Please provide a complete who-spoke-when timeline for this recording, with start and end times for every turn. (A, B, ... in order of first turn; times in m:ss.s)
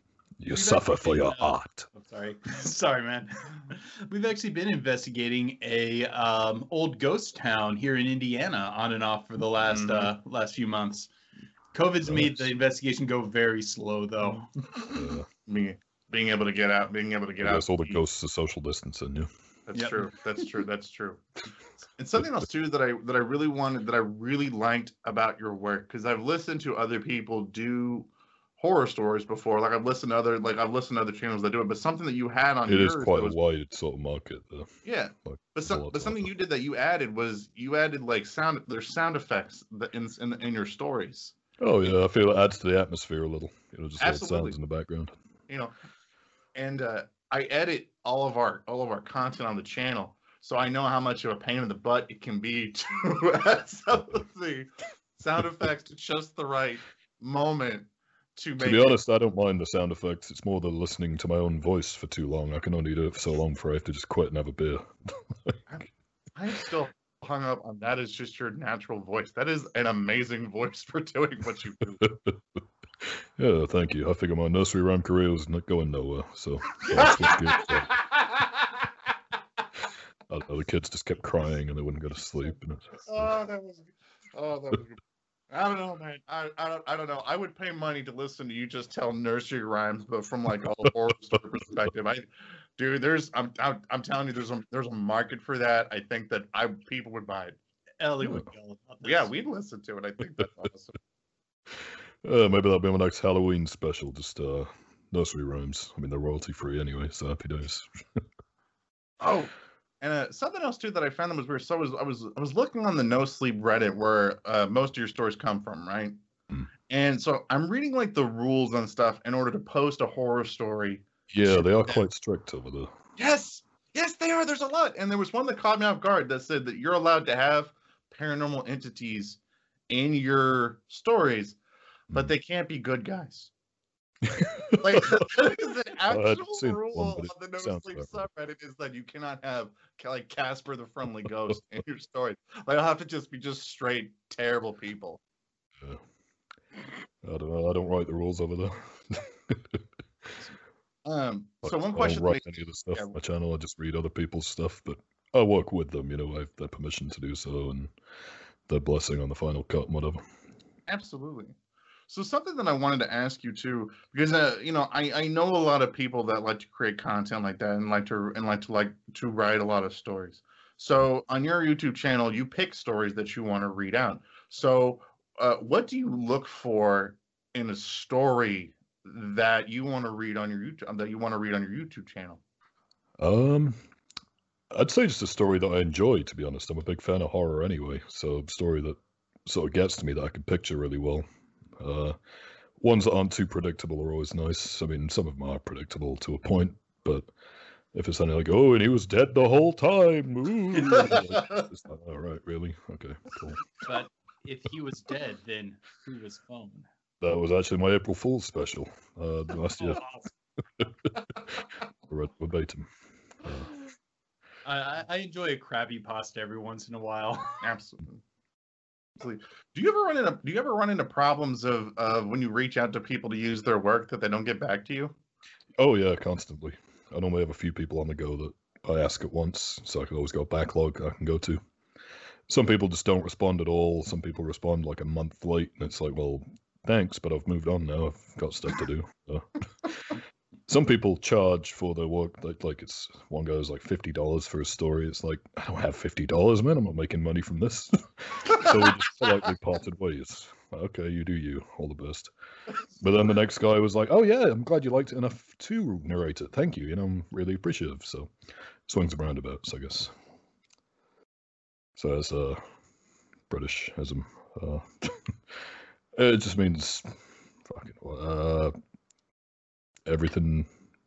0:00.4-0:01.9 A
0:00.5-0:11.1 B
0:09.6-0:10.1 C
0:11.7-0:14.5 B
0:12.0-0:12.4 A
0:14.9-0:15.3 A
0:15.5-0:18.0 C
0:17.4-0:19.3 A
0:19.7-0:21.2 C
0:19.7-0:20.0 B
0:22.0-0:33.4 C
0:32.7-0:34.8 A
0:34.9-0:41.4 C
0:35.3-0:36.3 A
0:41.6-0:45.1 A
0:44.0-0:44.6 C
0:46.6-0:59.0 C
0:58.6-1:05.6 A
1:05.7-1:12.1 C
1:12.0-1:18.0 A
1:16.9-1:18.9 C
1:20.3-1:23.3 A
1:23.0-1:37.6 C
1:38.0-1:39.3 B
1:39.0-1:41.0 C
1:42.2-1:48.2 A
1:49.2-1:56.2 C
1:56.9-2:02.1 C
2:01.3-2:02.9 A
2:03.2-2:11.6 C
2:12.1-2:13.5 C
2:14.2-2:15.3 A
2:14.7-2:25.2 C
2:16.1-2:18.2 A
2:27.2-2:29.8 A
2:31.0-2:33.1 C
2:31.7-2:37.9 A
2:38.7-2:40.2 A
2:40.9-2:41.6 C
2:42.1-3:02.4 C
3:03.2-3:03.8 A
3:04.7-3:11.2 A
3:11.8-3:12.2 A
3:12.8-3:17.3 A
3:17.9-3:23.7 A
3:20.9-3:21.6 C
3:23.8-3:26.9 B
3:27.2-3:30.1 A
3:29.8-3:30.3 B
3:30.8-3:32.9 A
3:33.4-3:33.8 A
3:34.6-3:37.6 B
3:37.6-3:38.2 C
3:39.2-3:45.2 C
3:45.8-3:51.6 A
3:52.5-4:12.3 A
4:13.0-4:18.3 A
4:18.9-4:20.1 A
4:22.0-4:22.6 A
4:23.5-4:25.6 A
4:26.2-4:28.7 A
4:30.1-4:30.7 A